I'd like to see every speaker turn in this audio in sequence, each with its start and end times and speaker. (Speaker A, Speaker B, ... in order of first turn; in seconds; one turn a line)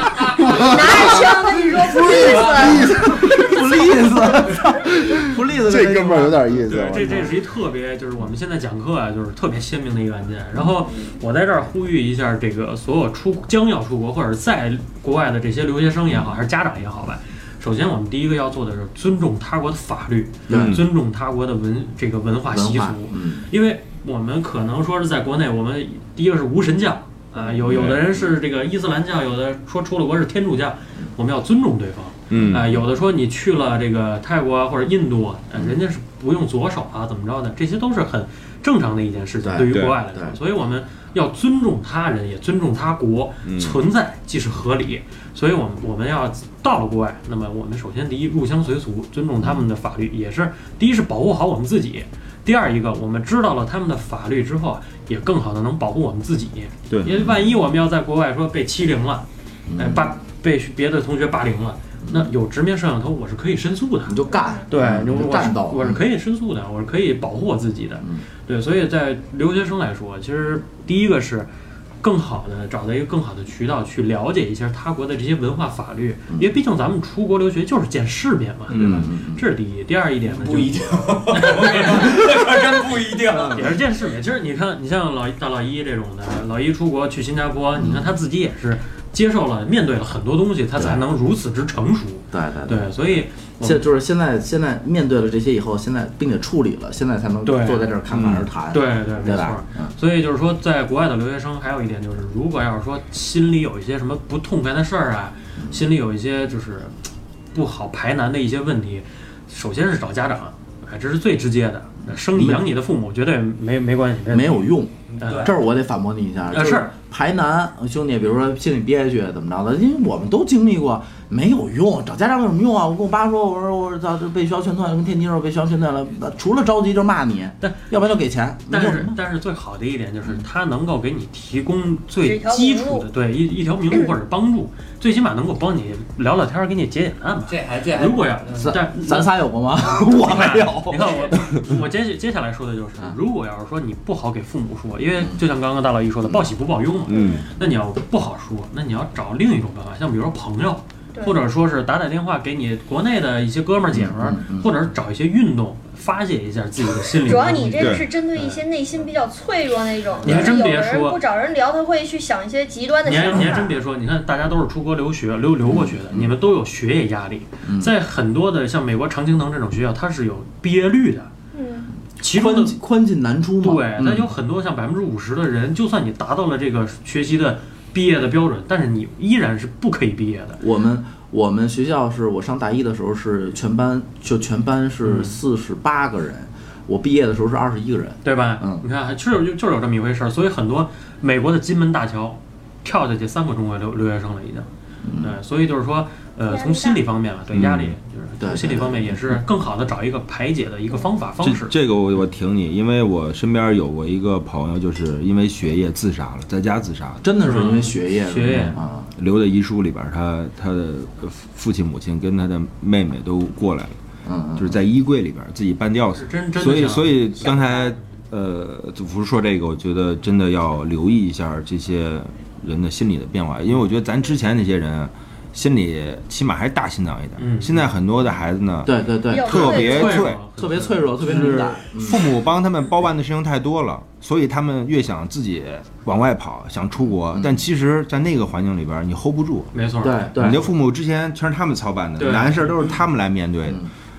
Speaker A: 0.4-3.2
Speaker B: 0.5-3.6
Speaker C: 0.9-7.4
Speaker A: 4.9-7.2
Speaker D: 6.7-71.5
Speaker C: 20.5-20.8
Speaker A: 20.5-20.9
Speaker C: 22.5-23.5
Speaker A: 27.6-28.1
Speaker A: 32.3-32.8
Speaker C: 39.4-40.4
Speaker A: 39.7-40.0
Speaker A: 43.4-43.8
Speaker A: 56.9-57.3
Speaker C: 59.7-60.1
Speaker C: 62.0-62.3
Speaker C: 64.1-66.0
Speaker B: 64.3-64.7
Speaker D: 72.0-82.2
Speaker A: 78.7-79.1
Speaker C: 78.7-79.5
Speaker E: 80.2-83.7
Speaker C: 83.4-83.7
Speaker D: 83.5-93.8
Speaker C: 87.7-88.2
Speaker C: 90.8-91.0
Speaker C: 92.3-93.0
Speaker C: 93.6-99.9
Speaker D: 97.4-98.0
Speaker A: 98.1-98.5
Speaker D: 98.7-115.5
Speaker C: 105.6-105.8
Speaker C: 112.3-112.6
Speaker C: 114.3-129.1
Speaker E: 115.1-115.5
Speaker D: 116.5-116.9
Speaker D: 128.7-139.3
Speaker B: 132.2-133.1
Speaker E: 137.5-138.7
Speaker C: 138.6-141.7
Speaker D: 140.1-158.6
Speaker A: 147.1-147.4
Speaker B: 147.1-147.5
Speaker B: 151.1-151.4
Speaker C: 153.9-154.7
Speaker B: 157.2-163.8
Speaker A: 157.8-158.1
Speaker D: 160.2-161.2
Speaker D: 163.0-171.3
Speaker C: 165.6-166.3
Speaker C: 167.7-167.9
Speaker B: 171.5-171.9
Speaker D: 172.2-172.8
Speaker C: 172.2-174.3
Speaker D: 173.6-180.6
Speaker C: 180.6-188.8
Speaker D: 185.0-185.4
Speaker D: 188.2-194.7
Speaker C: 195.0-195.3
Speaker D: 195.2-201.7
Speaker B: 196.5-197.0
Speaker A: 197.5-197.9
Speaker C: 198.4-199.4
Speaker A: 201.4-207.3
Speaker C: 207.2-209.1
Speaker D: 207.4-208.8
Speaker A: 209.1-214.0
Speaker C: 214.2-214.8
Speaker A: 214.6-230.4
Speaker D: 216.1-218.0
Speaker D: 227.4-227.8
Speaker C: 228.8-230.0
Speaker B: 229.3-230.3
Speaker D: 229.5-231.5
Speaker C: 230.6-232.2
Speaker A: 231.2-239.7
Speaker C: 237.3-237.6
Speaker D: 239.7-240.3
Speaker C: 240.0-240.7
Speaker A: 240.3-243.8
Speaker D: 242.2-242.9